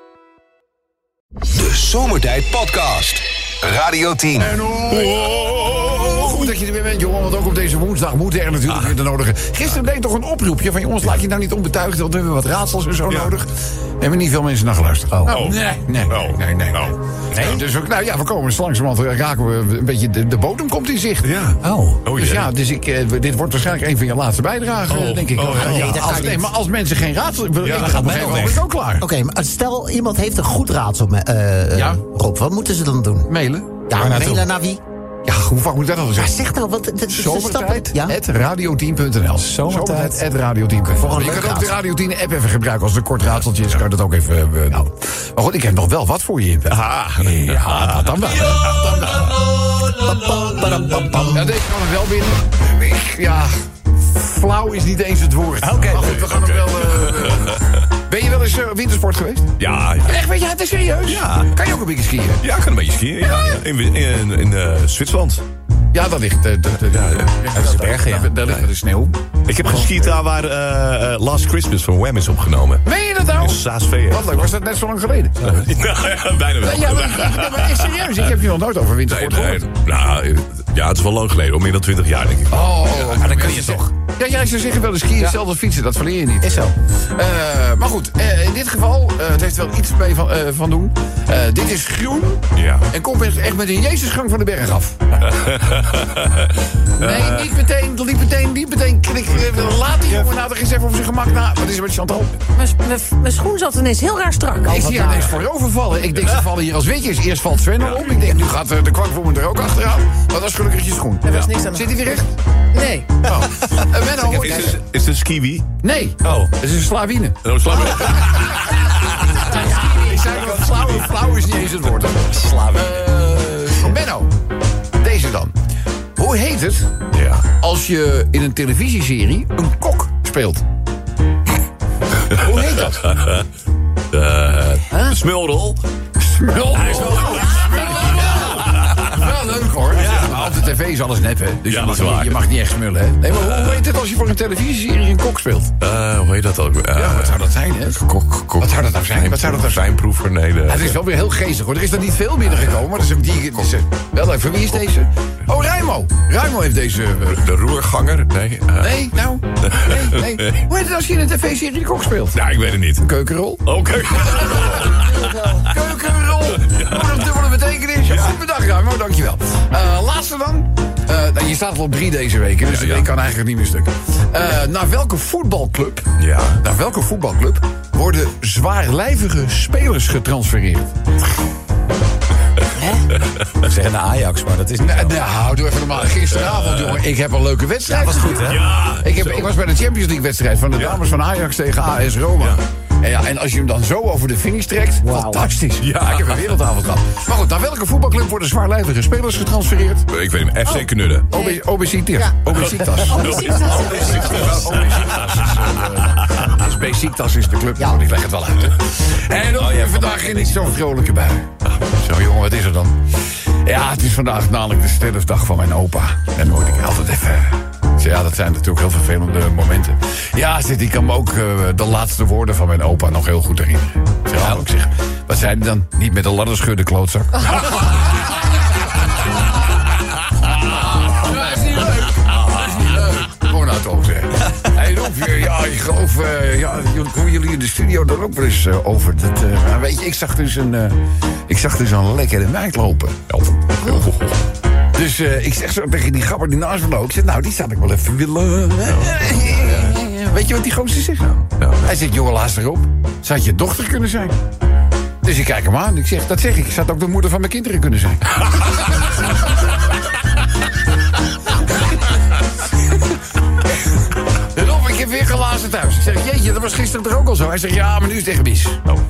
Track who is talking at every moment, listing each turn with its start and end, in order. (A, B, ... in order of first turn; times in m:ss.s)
0:01.5-0:04.6 A
0:04.4-0:21.4 B
0:05.0-0:06.3 C
0:15.3-0:16.9 C
0:17.3-0:17.6 D
0:21.2-0:22.5 C
0:21.6-0:22.0 D
0:22.1-0:29.0 B
0:24.9-0:26.0 C
0:24.9-0:26.1 D
0:25.5-0:26.5 E
0:27.6-0:28.6 D
0:27.6-0:28.4 C
0:29.0-0:33.3 E
0:31.7-0:32.0 B
0:33.3-0:33.8 B
0:33.9-0:34.8 E
0:33.9-0:34.5 D
0:35.2-0:36.4 B
0:36.2-0:38.2 E
0:37.1-0:49.4 B
0:39.5-0:40.2 D
0:40.9-0:41.7 E
0:46.7-0:49.3 C
0:49.9-0:51.4 E
0:51.3-1:02.4 B
0:55.6-0:57.8 C
0:55.7-0:56.0 D
0:59.6-1:00.2 C
1:01.1-1:01.4 C
1:02.4-1:05.4 C
1:05.9-1:10.2 B
1:06.9-1:07.4 C
1:07.5-1:08.3 D
1:09.5-1:12.8 C
1:12.8-1:15.6 B
1:13.4-1:14.5 C
1:15.4-1:18.2 C
1:16.6-1:19.7 B
1:19.1-1:23.3 C
1:22.5-1:35.3 B
1:23.1-1:23.8 D
1:26.4-1:26.7 D
1:32.5-1:32.9 C
1:35.2-1:37.5 C
1:37.0-1:42.3 B
1:42.6-1:45.3 F
1:44.6-1:52.3 B
1:47.8-1:48.2 C
1:51.2-1:51.9 F
1:52.7-1:53.2 F
1:53.3-1:54.8 B
1:54.2-1:55.7 C
1:55.8-1:58.7 B
1:56.2-1:56.5 D
1:57.4-1:59.6 C
1:59.3-2:04.3 B
2:02.3-2:02.9 D
2:05.0-2:05.5 B
2:06.2-2:06.9 B
2:07.1-2:07.5 C
2:07.6-2:10.6 B
2:12.3-2:13.2 B
2:13.0-2:13.4 C
2:14.1-2:15.8 C
2:16.2-2:25.7 B
2:16.7-2:19.1 C
2:20.0-2:20.5 C
2:21.6-2:22.4 C
2:23.4-2:23.8 C
2:25.8-2:27.4 C
2:26.9-2:28.0 B
2:27.9-2:31.0 C
2:28.6-2:29.8 B
2:30.7-2:37.4 B
2:37.3-2:39.0 C
2:38.8-2:42.4 B
2:39.6-2:40.6 C
2:42.3-2:43.0 C
2:43.0-2:43.6 B
2:43.6-2:45.4 C
2:44.2-2:45.0 B
2:44.9-2:45.7 E
2:45.6-3:01.1 B
2:46.6-2:47.2 C
2:48.1-2:48.3 C
2:52.7-2:53.0 C
2:56.2-2:56.6 C
3:03.2-3:03.6 C
3:03.6-3:05.1 D
3:04.8-3:20.0 B
3:06.1-3:07.0 C
3:07.8-3:08.6 D
3:08.4-3:09.5 C
3:15.8-3:16.6 C
3:20.1-3:21.3 C
3:21.3-3:33.0 B
3:21.3-3:21.6 F
3:22.5-3:25.8 C
3:23.1-3:24.5 F
3:29.5-3:30.5 D
3:33.6-3:48.2 B
3:50.4-4:03.3 B
4:03.3-4:04.4 C
4:05.0-4:14.4 B
4:08.9-4:10.0 C
4:11.4-4:11.9 C
4:15.2-4:18.8 B
4:24.5-4:28.8 B